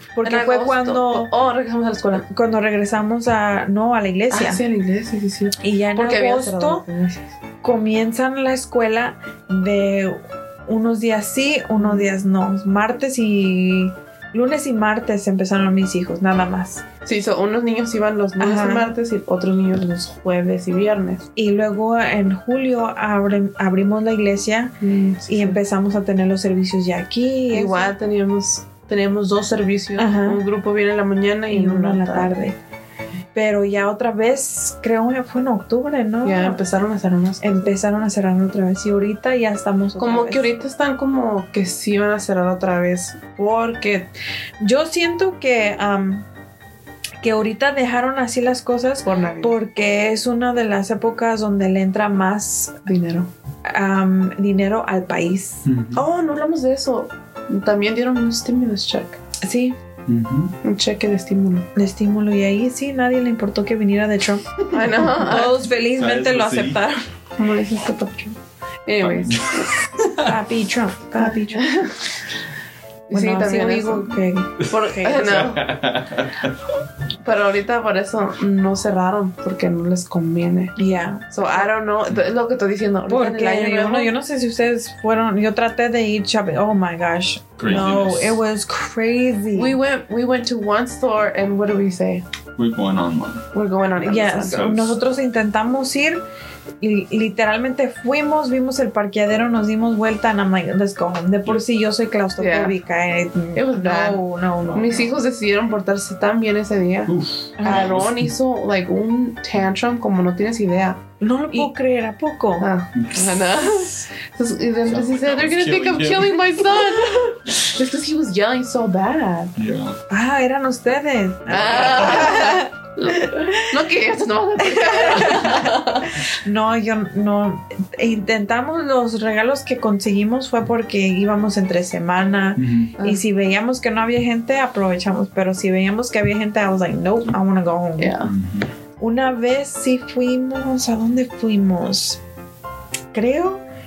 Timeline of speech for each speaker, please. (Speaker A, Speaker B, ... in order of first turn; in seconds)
Speaker A: 0.2-1.3, 2.2-4.6, 5.6-6.8, 7.6-16.8, 18.4-18.9, 21.4-24.7, 25.3-27.9, 30.0-30.4, 31.5-32.5, 33.3-36.6, 37.4-40.5, 44.6-46.2, 47.2-52.9, 53.6-55.6, 59.4-59.8, 61.7-67.0, 70.2-71.7, 73.1-75.3, 80.8-81.6, 83.1-89.8, 94.0-96.2, 96.8-105.0, 107.6-107.9, 111.2-112.7, 117.0-117.3, 120.1-122.7, 123.2-123.6, 124.6-138.2, 139.0-142.2, 143.1-143.6
Speaker B: 0.2-2.2, 4.3-7.2, 11.8-12.1, 17.1-21.2, 24.8-25.6, 27.5-32.4, 36.2-37.7, 40.0-44.1, 49.0-49.5, 52.9-53.3, 55.9-59.2, 60.6-61.7, 64.7-65.6, 67.4-68.3, 68.8-69.8, 71.1-72.0, 73.1-75.7, 77.2-80.8, 81.3-84.1, 89.5-92.2, 93.5-94.7, 102.4-102.8, 103.5-104.2, 104.7-111.7, 112.6-119.5, 121.5-126.2, 138.0-138.3
Speaker C: 55.6-56.0, 60.0-60.5, 65.8-66.8, 69.0-70.3, 74.6-76.5, 87.6-88.4, 92.6-93.4, 94.5-95.0, 107.1-108.3, 112.9-113.7, 114.8-116.6, 119.5-120.0, 121.5-122.3, 132.6-132.9, 138.2-138.7